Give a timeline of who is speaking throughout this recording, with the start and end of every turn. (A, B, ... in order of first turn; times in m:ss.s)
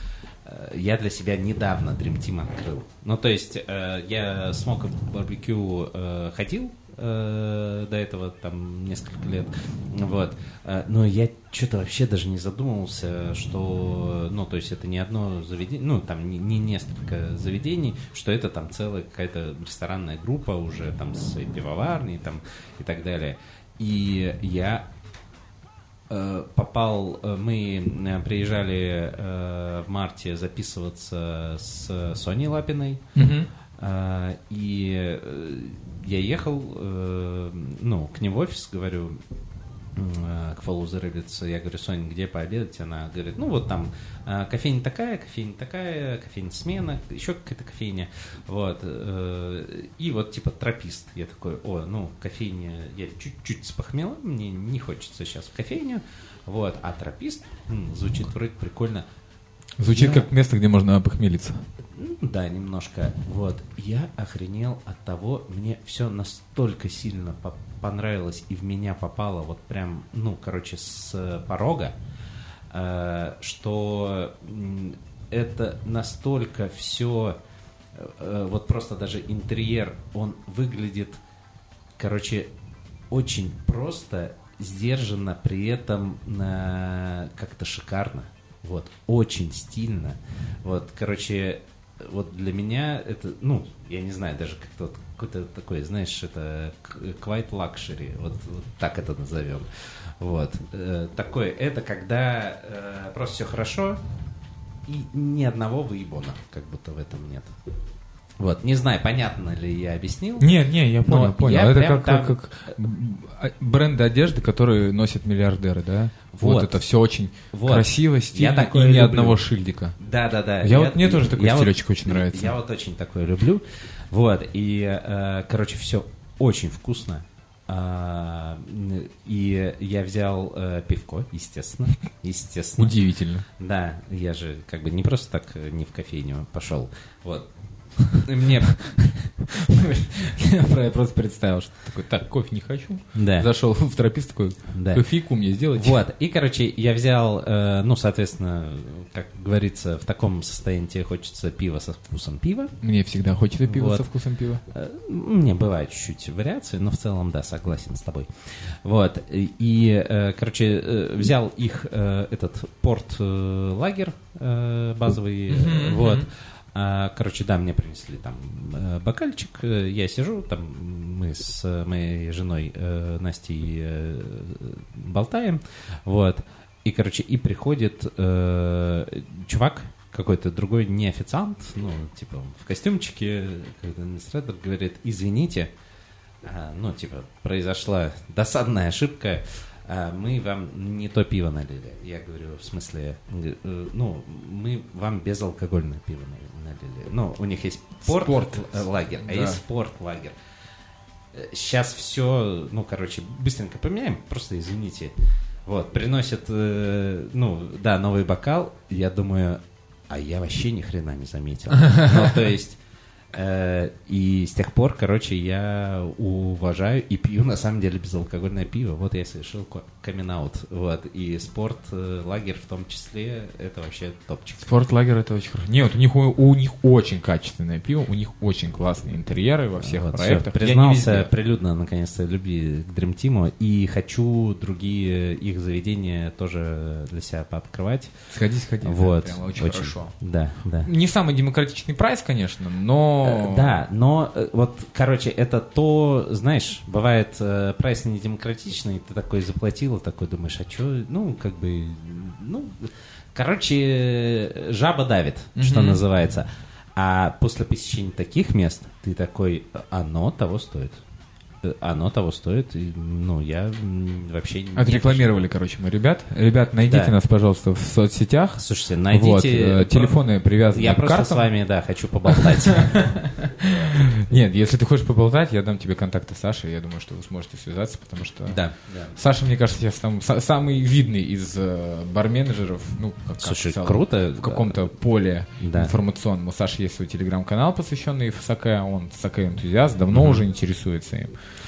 0:00.4-0:24.9 A
0:26.1-0:33.0 A
0:33.2-0:33.5 B
0:33.8-0:39.2 A
0:40.0-0:59.1 A
0:59.8-1:01.6 B
0:59.9-1:00.3 A
1:01.9-1:12.0 A
1:12.7-1:17.4 A
1:18.0-1:21.2 A
1:22.0-1:22.5 A
1:23.1-1:44.0 A
1:44.9-1:47.5 A
1:48.4-1:50.5 A
1:50.4-2:00.0 B
1:51.0-1:52.7 A
1:56.3-1:56.8 A
1:57.5-1:59.4 A
2:00.0-2:13.0 A
2:00.6-2:02.6 B
2:12.8-2:13.4 B
2:13.6-2:19.0 A
2:18.6-2:26.0 B
2:23.1-2:23.5 A
2:24.7-2:32.8 A
2:32.8-2:34.6 B
2:33.6-2:34.1 A
2:34.7-3:05.7 A
2:45.5-2:46.3 B
3:06.4-3:20.4 A
3:18.0-3:19.6 B
3:21.3-3:25.2 A
3:25.7-3:32.8 A
3:33.3-3:44.7 A
3:44.6-3:51.3 B
3:49.8-3:58.1 A
3:58.3-4:00.2 B
3:58.8-4:00.9 A
4:00.8-4:03.8 B
4:03.2-4:21.0 A
4:15.6-4:16.0 B
4:21.6-4:25.4 A
4:24.8-4:31.5 B
4:26.9-4:27.2 A
4:28.6-4:33.1 A
4:32.3-4:51.3 B
4:38.5-4:39.2 A
4:43.4-4:44.9 A
4:45.6-4:45.9 A
4:50.1-4:50.4 A